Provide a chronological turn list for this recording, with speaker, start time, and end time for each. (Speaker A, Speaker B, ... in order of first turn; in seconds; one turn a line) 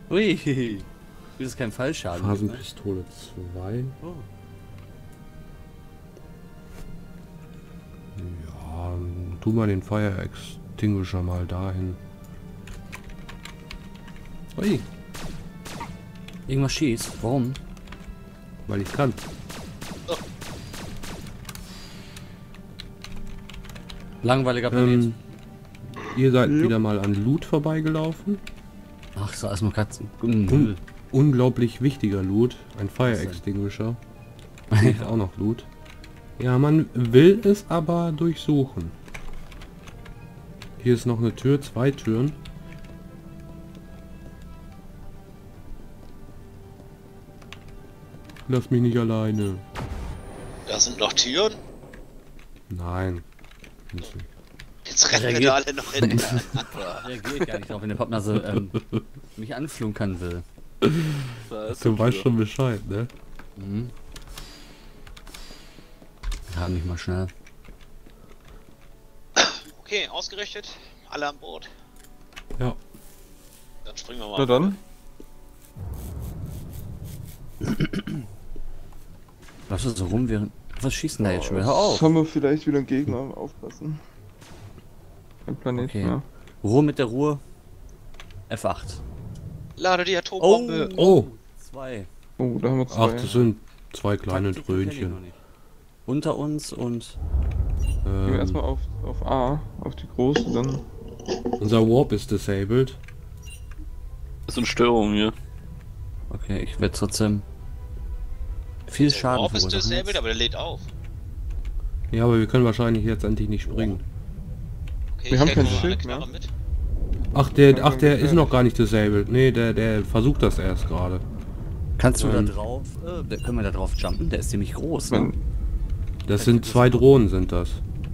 Speaker A: 0.1-2.6
Speaker B: 2.1-4.0
Speaker A: 4.0-4.3
Speaker B: 8.2-12.0
Speaker B: 14.6-14.9
Speaker A: 16.5-17.6
Speaker B: 18.7-19.2
Speaker A: 24.2-25.1
Speaker B: 24.7-25.2
Speaker B: 26.0-28.4
Speaker A: 29.2-30.8
Speaker B: 30.5-34.0
Speaker A: 33.0-33.4
Speaker A: 34.7-35.1
Speaker B: 34.8-35.7
Speaker B: 36.4-39.0
Speaker B: 40.8-42.4
Speaker B: 48.5-49.6
Speaker C: 50.7-51.6
Speaker B: 52.7-53.2
Speaker B: 53.9-54.3
Speaker C: 54.9-56.9
Speaker A: 55.1-56.3
Speaker B: 56.1-56.4
Speaker D: 56.7-57.1
Speaker A: 57.0-58.8
Speaker B: 58.5-59.0
Speaker A: 59.4-60.5
Speaker B: 60.8-63.1
Speaker D: 61.5-62.2
Speaker A: 63.6-63.9
Speaker A: 66.5-67.3
Speaker C: 69.4-71.7
Speaker C: 73.8-74.8
Speaker E: 74.4-74.8
Speaker A: 77.6-78.2
Speaker A: 79.7-82.1
Speaker E: 81.2-84.0
Speaker E: 85.5-86.2
Speaker A: 85.8-87.4
Speaker A: 88.5-89.0
Speaker C: 89.8-91.1
Speaker A: 90.4-92.1
Speaker B: 91.0-91.3
Speaker E: 92.4-93.5
Speaker B: 92.9-95.2
Speaker A: 94.3-95.4
Speaker A: 96.1-97.2
Speaker B: 98.0-98.6
Speaker E: 98.2-100.9
Speaker B: 101.6-103.0
Speaker D: 104.5-105.3
Speaker A: 106.3-107.5
Speaker A: 108.9-110.2
Speaker C: 109.0-110.9
Speaker B: 112.1-114.0
Speaker C: 115.2-116.5
Speaker E: 115.3-116.3
Speaker B: 115.5-115.9
Speaker B: 117.3-121.2
Speaker E: 117.5-118.5
Speaker A: 122.0-125.3
Speaker B: 122.2-122.5
Speaker E: 125.1-125.4
Speaker B: 126.3-127.8
Speaker A: 126.3-127.2